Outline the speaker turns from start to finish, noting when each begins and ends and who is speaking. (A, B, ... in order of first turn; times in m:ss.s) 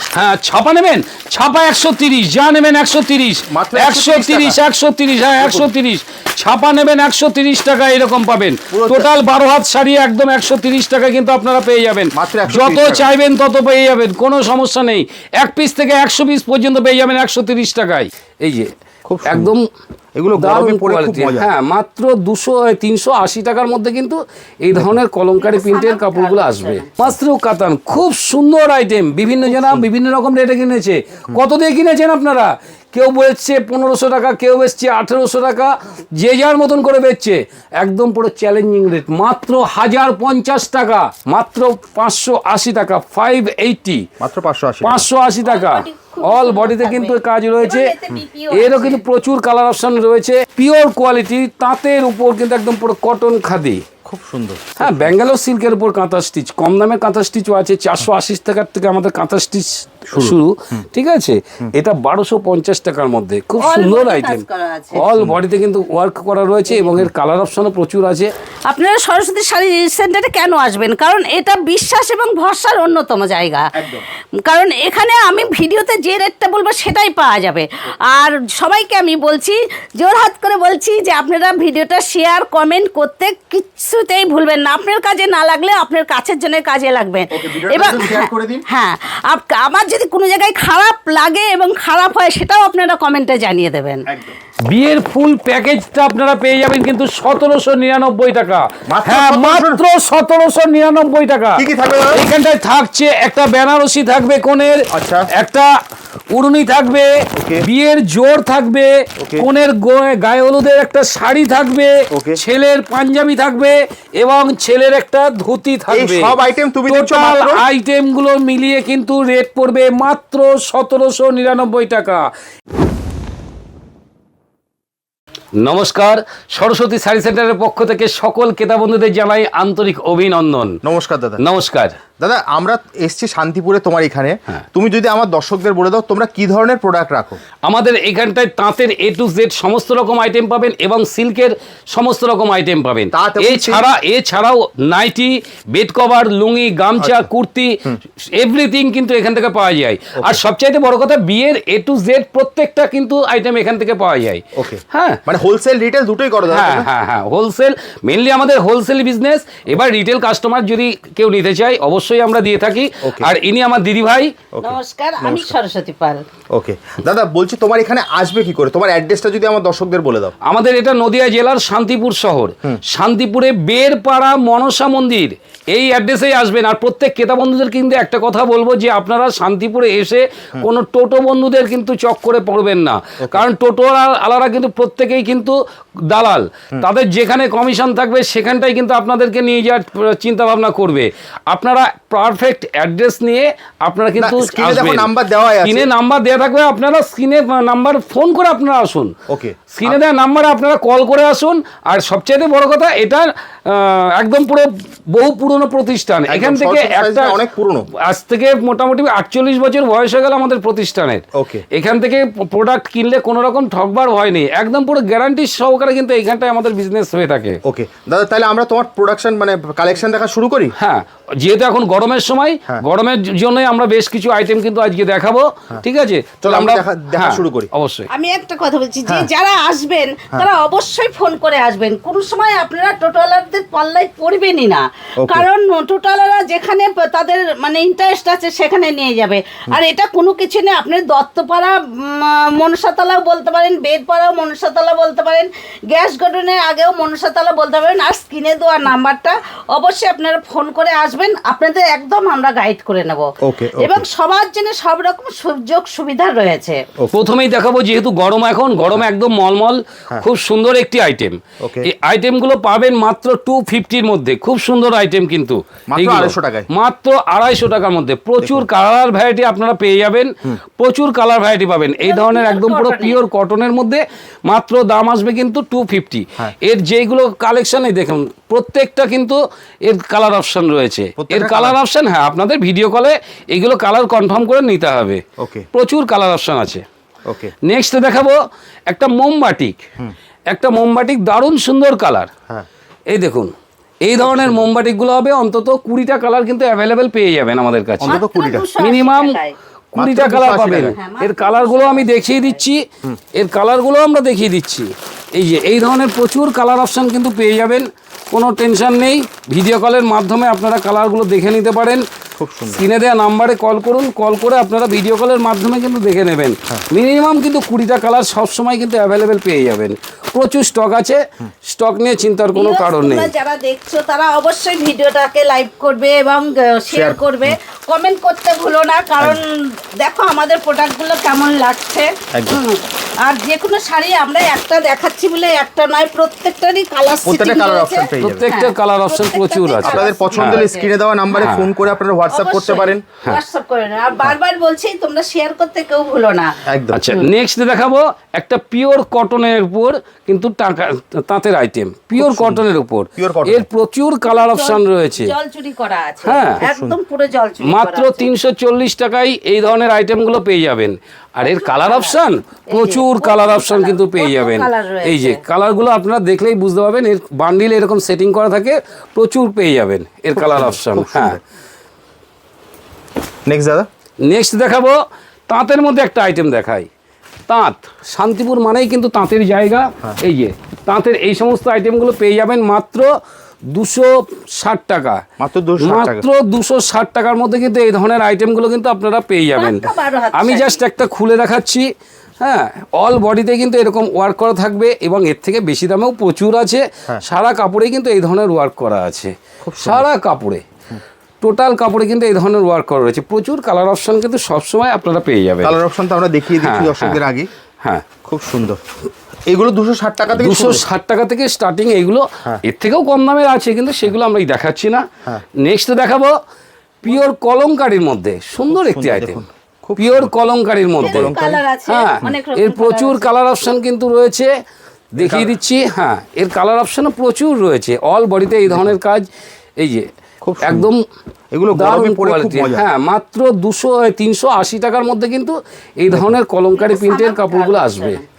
0:00.1-0:18.7 A
0:03.5-0:04.6 B
0:05.4-0:05.7 B
0:08.7-0:09.1 B
0:12.1-0:13.1 B
0:19.0-0:19.5 B
0:19.2-0:19.6 A
0:20.1-0:21.5 B
0:20.4-0:44.0 A
0:25.4-0:27.1 C
0:29.5-0:29.8 B
0:44.2-0:45.1 B
0:44.8-0:47.9 A
0:45.4-0:49.0 C
0:48.5-0:53.8 A
0:54.0-0:55.1 B
0:54.8-1:04.4 A
1:00.1-1:00.8 B
1:03.6-1:05.1 C
1:04.9-1:08.3 A
1:05.0-1:05.4 B
1:06.7-1:07.0 C
1:08.7-1:13.7 C
1:13.7-1:14.0 B
1:14.4-1:34.0 C
1:27.3-1:28.6 B
1:34.0-1:34.3 B
1:34.7-1:45.8 A
1:38.9-1:39.8 B
1:41.6-1:42.2 B
1:44.9-1:45.3 B
1:46.3-1:56.4 A
1:47.3-1:47.6 B
1:49.2-1:49.5 B
1:52.1-1:52.4 B
1:55.9-1:57.6 B
1:56.9-2:02.2 A
2:05.6-2:10.8 A
2:10.8-2:11.4 B
2:11.4-2:11.9 A
2:12.2-2:17.4 B
2:17.6-2:35.2 A
2:23.1-2:23.9 B
2:27.0-2:27.3 B
2:30.2-2:30.4 B
2:34.6-2:36.9 B
2:36.5-2:44.3 A
2:43.0-2:43.3 B
2:44.5-2:45.5 B
2:44.6-2:46.2 C
2:46.5-2:50.3 B
2:50.4-3:05.5 A
3:03.2-3:03.4 B
3:06.1-3:15.1 A
3:14.2-3:15.9 B
3:15.6-3:19.1 A
3:19.3-3:20.0 B
3:19.7-3:27.4 A
3:26.3-3:27.9 B
3:28.0-3:37.6 A
3:31.3-3:31.6 B
3:37.6-3:40.7 B
3:40.8-3:48.1 A
3:46.4-3:47.7 B
3:48.1-4:16.8 C
3:55.2-3:55.5 B
4:13.4-4:14.0 B
4:17.1-4:45.2 A
4:21.6-4:21.9 B
4:25.9-4:26.7 B
4:28.4-4:28.7 B
4:32.0-4:33.2 C
4:41.2-4:41.8 B
4:45.4-4:45.7 B
4:45.7-4:46.8 A
4:47.3-4:47.5 B
4:47.6-4:49.8 A
4:50.5-4:52.3 A
4:53.1-4:53.5 A
4:54.0-4:58.2 A
4:54.2-4:54.7 B
4:58.0-4:58.7 B
4:58.1-4:59.6 C
4:58.8-4:59.4 A
4:59.9-5:01.0 B
4:59.9-5:02.8 A
5:00.9-5:02.6 C
5:03.3-5:12.0 A
5:12.4-5:12.8 B
5:12.7-5:23.3 A
5:22.5-5:41.6 C
5:26.9-5:27.6 B
5:32.3-5:32.6 B
5:37.2-5:38.4 B
5:38.2-5:40.6 A
5:39.8-5:43.0 B
5:41.4-5:41.8 A
5:42.3-5:46.5 C
5:46.6-5:47.1 B
5:46.9-5:55.3 A
5:52.2-5:52.6 B
5:53.2-5:53.6 B
5:54.2-5:58.3 C
5:56.2-5:56.6 A
5:56.6-5:57.0 B
5:57.6-6:11.4 A
6:01.4-6:02.2 C
6:02.7-6:05.4 C
6:10.3-6:11.4 B
6:13.5-6:13.9 B
6:14.2-6:15.0 A
6:15.5-6:16.9 A
6:17.5-6:23.1 A
6:23.7-6:25.2 A
6:25.4-6:26.3 B
6:25.8-6:31.9 A
6:29.6-6:30.8 C
6:32.4-6:40.6 A
6:39.6-6:40.1 B
6:41.4-6:45.8 A
6:45.6-6:47.5 B
6:46.6-6:47.2 A
6:48.2-6:48.8 B
6:49.5-6:50.8 B
6:50.4-6:55.0 A
6:55.6-6:56.4 A
6:57.0-6:59.4 A
6:58.7-7:00.3 B
7:00.0-7:01.3 A
7:01.0-7:01.6 B
7:01.0-7:03.3 C
7:01.9-7:04.5 A
7:05.2-7:10.1 A
7:05.2-7:05.6 B
7:10.4-7:10.9 B
7:10.6-7:11.0 A
7:11.5-7:12.8 B
7:11.7-7:18.2 A
7:16.1-7:16.4 B
7:16.8-7:18.2 C